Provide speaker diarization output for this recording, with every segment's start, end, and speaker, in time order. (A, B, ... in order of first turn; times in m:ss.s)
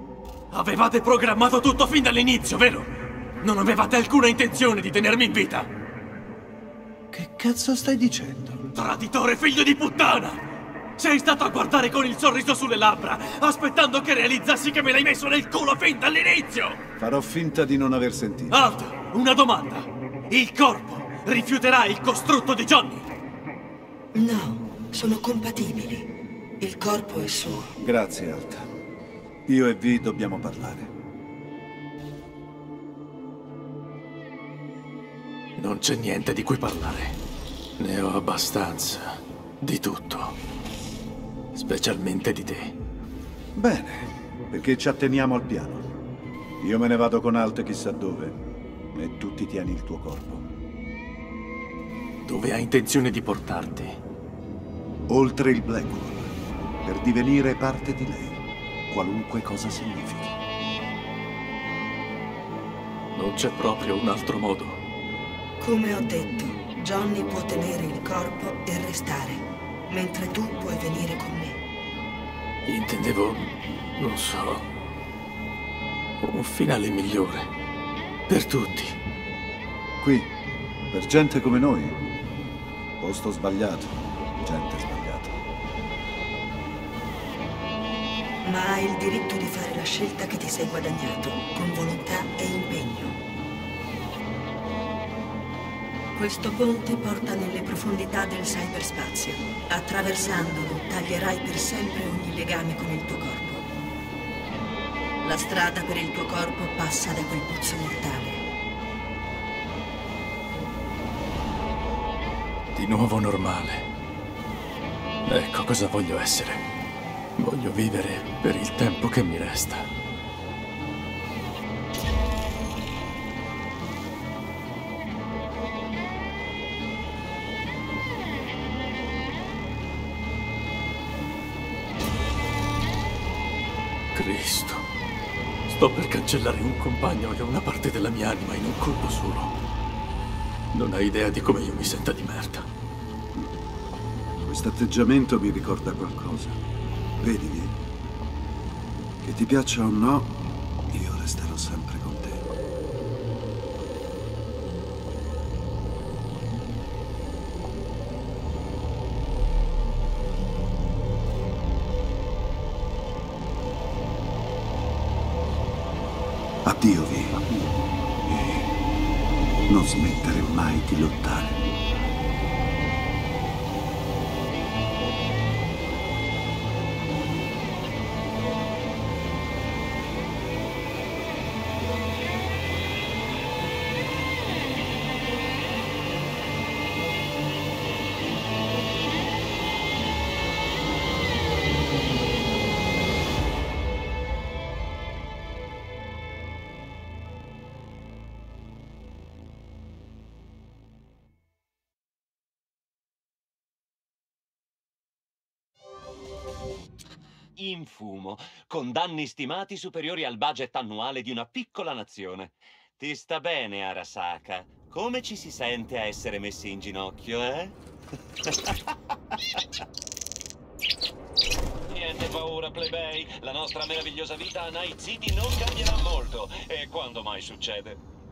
0:00.5-0:02.9 A
0:03.4-0:05.7 A
0:07.1-0:08.7 B
0:08.8-0:10.4 A
0:11.0-0:16.8 A
0:17.0-0:18.7 B
0:18.5-0:23.0 A
0:24.1-0:27.8 C
0:27.8-0:28.7 B
0:29.5-0:30.9 B
0:35.6-0:37.2 A
0:37.8-0:40.4 A
0:41.6-0:42.7 A
0:43.6-0:45.9 B
0:46.6-0:48.4 B
0:48.9-0:50.5 B
0:52.2-0:54.0 A
0:55.1-1:00.4 B
1:03.2-1:04.8 A
1:05.6-1:11.6 C
1:12.7-1:14.6 A
1:16.2-1:17.5 A
1:18.3-1:19.0 A
1:20.0-1:20.3 B
1:20.9-1:22.0 B
1:23.0-1:25.4 B
1:28.4-1:33.2 C
1:36.2-1:43.7 C
1:45.2-1:48.4 C
1:52.7-1:53.8 A
1:55.3-1:56.6 A
1:57.4-1:59.9 A
2:14.1-2:14.8 A
2:15.7-2:19.5 A
2:20.7-2:22.7 A
2:24.4-2:26.6 B
2:27.2-2:27.8 B
2:29.2-2:32.5 B
2:46.6-2:48.7 B
2:49.7-2:51.6 B
3:27.6-3:37.8 D
3:41.9-3:48.0 D